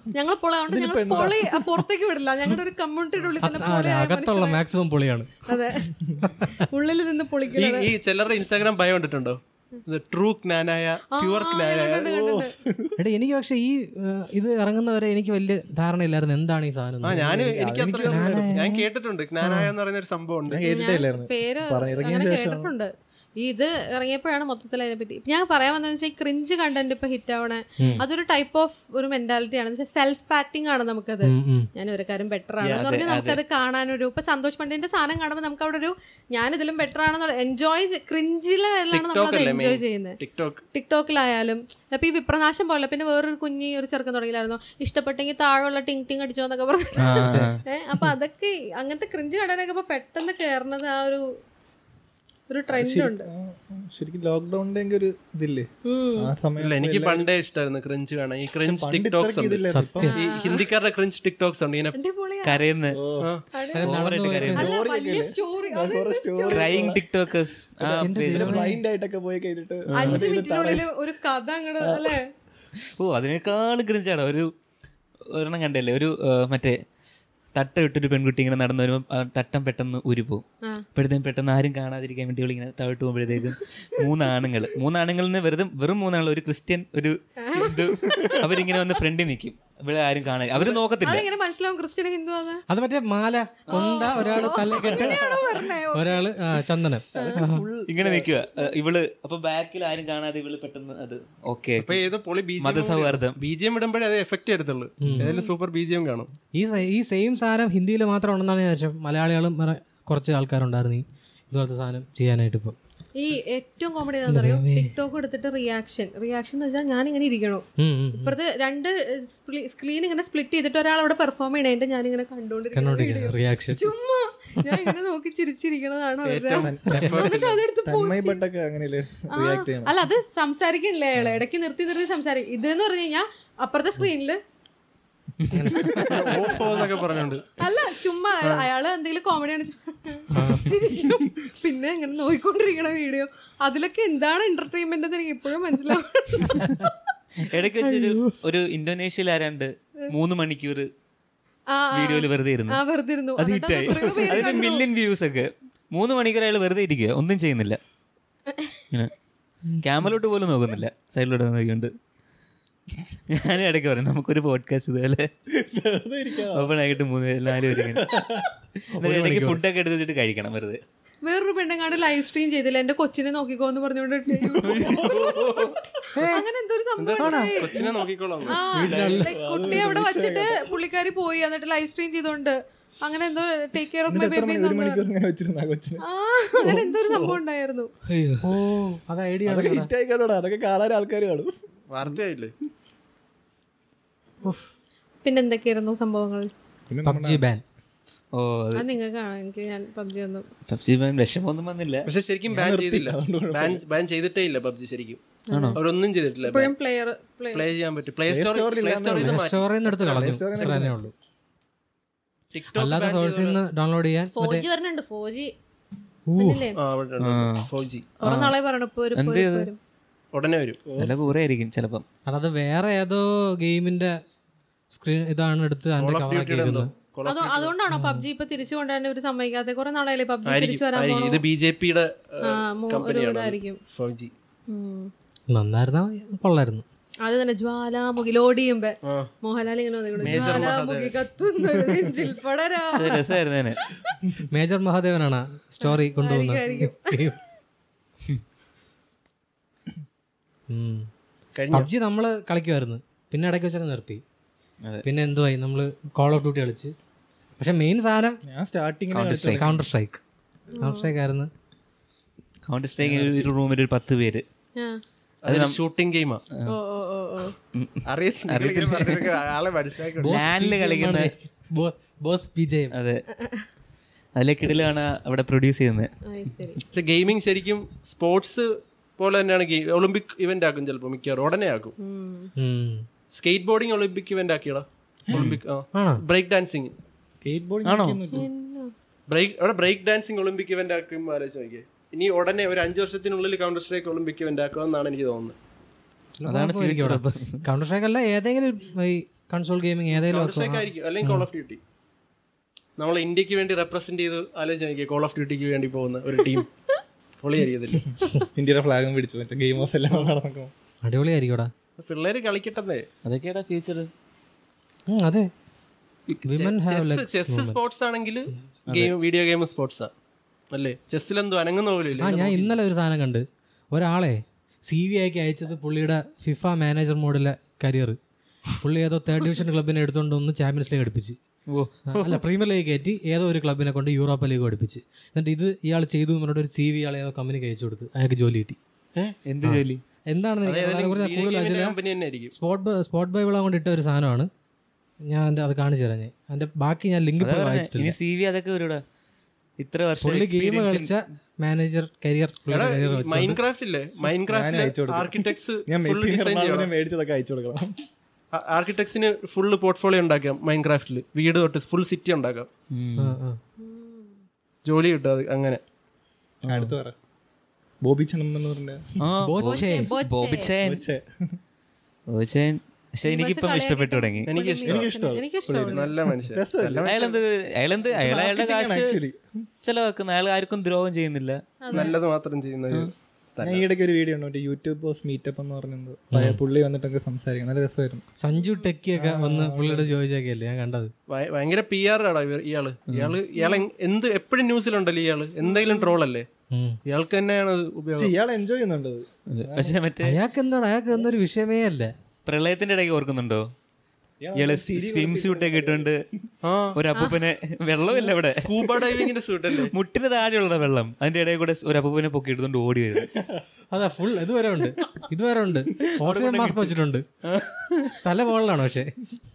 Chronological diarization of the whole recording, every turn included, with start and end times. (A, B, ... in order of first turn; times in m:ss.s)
0:00.1-0:04.6 A
0:00.7-0:01.8 B
0:03.4-0:05.5 C
0:05.5-0:05.9 A
0:06.2-0:06.6 C
0:06.7-0:07.9 A
0:07.5-0:12.1 D
0:11.2-0:12.5 A
0:12.0-0:13.0 B
0:13.0-0:17.5 C
0:17.0-0:20.6 D
0:17.3-0:18.5 B
0:18.0-0:18.8 C
0:20.5-0:22.7 B
0:20.6-0:40.2 A
0:31.2-0:31.7 C
0:32.7-0:33.4 E
0:38.9-0:40.6 D
0:40.7-0:51.2 A
0:47.0-0:47.6 E
0:47.3-0:47.5 C
0:52.5-0:53.3 A
0:52.7-0:57.2 B
0:55.8-0:56.3 A
0:56.6-1:02.0 D
0:58.6-1:00.1 B
0:59.7-1:00.1 C
1:00.0-1:00.7 A
1:01.9-1:02.6 A
1:02.4-1:03.0 E
1:02.9-1:03.3 B
1:03.2-1:03.4 D
1:03.5-1:03.9 A
1:03.7-1:04.6 C
1:03.8-1:04.7 E
1:04.5-1:07.0 B
1:04.5-1:07.1 A
1:06.5-1:08.7 E
1:07.8-1:10.9 B
1:08.0-1:08.8 C
1:10.0-1:12.2 A
1:11.8-1:12.2 B
1:12.8-1:14.5 E
1:15.3-1:16.8 E
1:17.5-1:20.4 E
1:20.9-1:31.2 E
1:27.4-1:28.8 A
1:31.0-1:32.6 A
1:32.7-1:35.3 C
1:33.7-1:34.3 E
1:33.7-1:36.3 A
1:35.9-1:37.6 C
1:37.1-1:38.4 B
1:37.1-1:37.4 A
1:37.9-1:42.0 E
1:41.8-1:46.3 D
1:42.6-1:43.4 E
1:45.0-1:45.3 C
1:45.2-1:45.5 A
1:46.5-1:52.8 C
1:53.2-1:57.6 A
1:54.3-1:54.9 C
1:57.8-1:58.4 C
1:58.2-2:08.4 A
2:02.7-2:03.9 C
2:04.6-2:04.9 C
2:06.2-2:07.6 D
2:06.6-2:09.9 B
2:09.3-2:14.4 A
2:15.4-2:16.1 E
2:15.5-2:16.5 C
2:16.0-2:17.5 D
2:17.6-2:26.8 A
2:20.3-2:20.7 C
2:26.5-2:26.9 C
2:27.4-2:30.9 E
2:27.8-2:28.3 C
2:31.7-2:34.8 A
2:31.9-2:32.8 E
2:33.4-2:37.8 E
2:38.5-2:38.8 A
2:39.8-2:41.9 E
2:43.3-2:45.3 E
2:45.5-2:46.7 B
2:46.5-2:48.1 E
2:47.6-2:48.5 B
2:49.0-2:50.8 E
2:49.0-2:49.6 C
2:51.2-2:55.5 A
2:54.4-2:55.8 B
2:54.6-2:55.8 E
2:56.1-2:56.4 C
2:56.2-2:57.9 A
2:57.0-2:58.6 D
2:57.2-2:57.6 C
2:58.5-3:05.0 A
2:58.7-2:59.3 C
2:58.8-3:00.8 B
2:58.9-2:59.2 E
3:04.1-3:06.0 B
3:06.0-3:07.9 A
3:06.6-3:07.4 B
3:08.1-3:08.5 E
3:08.4-3:09.9 C
3:09.4-3:11.5 B
3:11.9-3:12.5 D
3:15.2-3:16.5 A
3:16.9-3:17.4 B
3:17.0-3:17.6 C
3:18.3-3:18.8 E
3:18.8-3:20.4 A
3:20.7-3:22.1 E
3:22.0-3:25.2 D
3:22.5-3:23.8 B
3:25.5-3:25.8 A
3:25.5-3:25.8 E
3:25.8-3:26.7 D
3:26.4-3:27.6 A
3:27.5-3:30.2 D
3:28.3-3:31.0 B
3:29.2-3:31.1 C
3:32.5-3:33.6 D
3:32.8-3:34.6 C
3:34.3-3:35.5 A
3:36.3-3:36.7 C
3:36.4-3:36.8 A
3:36.8-3:38.1 D
3:37.2-3:37.7 E
3:38.2-3:38.5 E
3:38.2-3:39.8 A
3:39.2-3:39.7 E
3:40.3-3:40.8 D
3:40.9-3:41.2 B
3:41.0-3:42.0 E
3:42.3-3:44.2 C
3:44.9-3:46.9 C
3:46.0-3:47.7 D
3:47.2-3:51.4 A
3:47.9-3:48.2 C
3:50.5-3:54.3 D
3:52.4-3:53.8 A
3:54.7-3:55.1 A
3:55.5-3:56.8 C
3:57.2-4:03.3 A
4:00.2-4:01.1 D
4:02.9-4:03.8 E
4:03.9-4:04.2 A
4:04.5-4:07.4 C
4:05.8-4:07.3 A
4:10.7-4:11.1 C
4:11.5-4:11.9 D
4:11.7-4:14.2 C
4:15.0-4:16.9 C
4:17.6-4:18.4 C
4:18.4-4:19.7 B
4:19.1-4:19.8 E
4:19.6-4:20.2 C
4:20.8-4:21.1 A
4:20.8-4:21.5 C
4:22.7-4:24.4 E
4:23.0-4:23.5 D
4:25.4-4:26.4 D
4:25.4-4:25.8 E
4:26.6-4:27.5 A
4:27.7-4:29.4 E
4:28.1-4:30.4 D
4:30.2-4:32.9 C
4:30.2-4:31.3 E
4:32.9-4:33.2 E
4:33.3-4:33.7 A
4:34.4-4:36.1 E
4:36.2-4:36.8 A
4:36.9-4:42.0 D
4:42.0-4:42.5 A
4:42.6-4:43.0 C
4:43.3-4:46.9 D
4:45.3-4:45.6 E
4:45.9-4:46.2 C
4:47.4-4:48.5 B
4:47.8-4:48.2 E
4:48.3-4:48.9 A
4:49.3-4:55.6 D
4:56.4-5:01.5 C
4:56.5-4:57.6 E
5:00.1-5:01.8 D
5:03.0-5:06.7 D
5:07.4-5:08.1 D
5:08.5-5:10.7 B
5:11.0-5:11.7 C
5:12.0-5:13.0 D
5:13.2-5:14.1 E
5:15.1-5:15.5 C
5:16.3-5:20.1 D
5:16.5-5:17.8 C
5:18.9-5:19.1 E
5:20.7-5:22.8 D
5:22.2-5:28.2 C
5:28.8-5:31.4 C
5:31.7-5:32.4 E
5:32.1-5:38.8 C
5:39.4-5:40.0 E
5:39.6-5:41.9 C
5:40.6-5:42.5 D
5:42.5-5:44.5 C
5:45.3-5:48.2 C
5:47.4-5:49.0 E
5:49.8-5:51.1 E
5:50.2-5:53.6 C
5:52.7-5:56.9 D
5:54.5-5:57.9 B
5:58.5-6:02.7 D
6:02.9-6:03.4 E
6:03.2-6:03.6 C
6:03.8-6:04.4 A
6:04.8-6:05.8 D
6:06.7-6:07.1 B
6:06.7-6:06.9 E
6:08.0-6:09.1 B
6:09.2-6:11.0 E
6:09.5-6:10.1 C
6:09.6-6:10.8 A
6:10.8-6:11.6 B
6:12.3-6:14.5 E
6:13.2-6:16.1 A
6:14.5-6:15.0 D
6:14.8-6:17.1 B
6:15.9-6:17.4 D
6:17.0-6:19.2 E
6:18.1-6:19.7 B
6:19.8-6:21.6 E
6:21.8-6:22.2 A
6:21.9-6:23.8 D
6:23.6-6:28.2 B
6:26.3-6:26.6 C
6:28.4-6:31.1 C
6:28.6-6:28.9 A
6:29.2-6:30.1 B
6:31.3-6:36.4 D
6:33.5-6:33.8 A
6:35.6-6:36.2 A
6:36.7-6:37.0 C
6:37.0-6:38.3 D
6:38.2-6:40.0 B
6:39.5-6:40.4 E
6:40.2-6:42.1 C
6:42.4-6:43.6 E
6:44.4-6:46.4 B
6:44.5-6:46.2 E
6:46.6-6:47.0 D
6:46.9-6:49.2 E
6:48.4-6:49.9 D
6:49.7-6:53.3 E
6:53.3-6:53.6 B
6:53.9-6:57.2 C
6:56.2-6:56.7 E
6:56.4-6:56.9 D
6:57.4-6:58.2 E
6:58.2-6:59.1 C